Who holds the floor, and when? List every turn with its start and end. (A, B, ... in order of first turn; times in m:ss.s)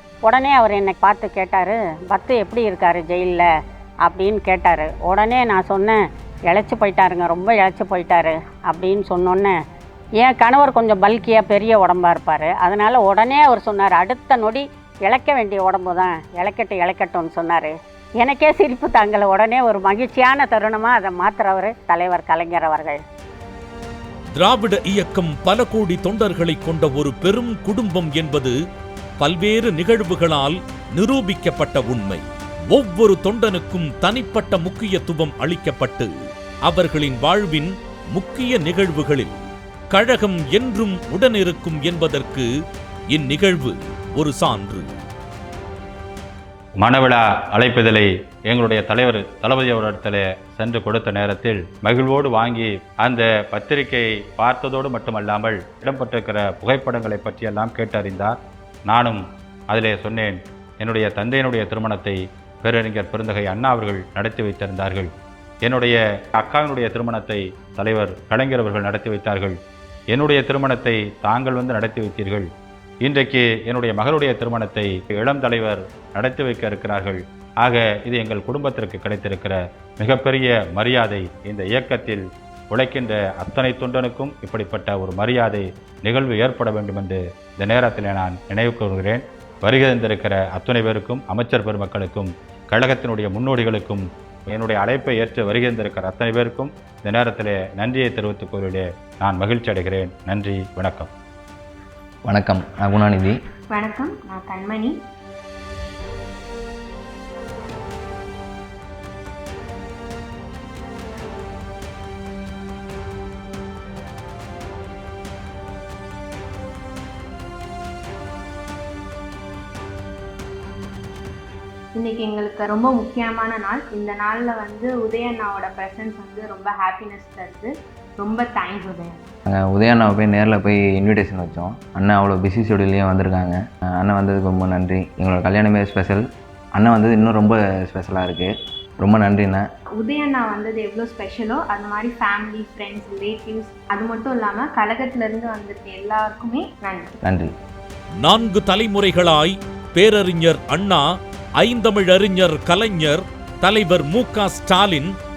0:00.2-0:03.5 A
0:04.0-0:09.6 A
0:10.2-0:23.0 A
0:24.3-0:28.5 B
0:29.2-0:36.1 B
0:36.6-0:39.4 B
0:39.9-0:42.5 B
0:43.1-0:44.9 B
0:46.8-0:58.4 C
0:58.9-1:05.1 C
1:05.6-1:09.6 C
1:10.1-1:12.5 C
1:13.0-1:41.1 C
1:42.3-1:43.4 D
1:43.7-1:45.0 E
2:01.9-2:09.3 E
2:09.5-2:16.2 D
2:16.8-2:19.6 D
2:20.0-2:27.1 E
2:27.2-2:27.5 D
2:28.2-2:31.0 B
2:31.6-2:35.1 B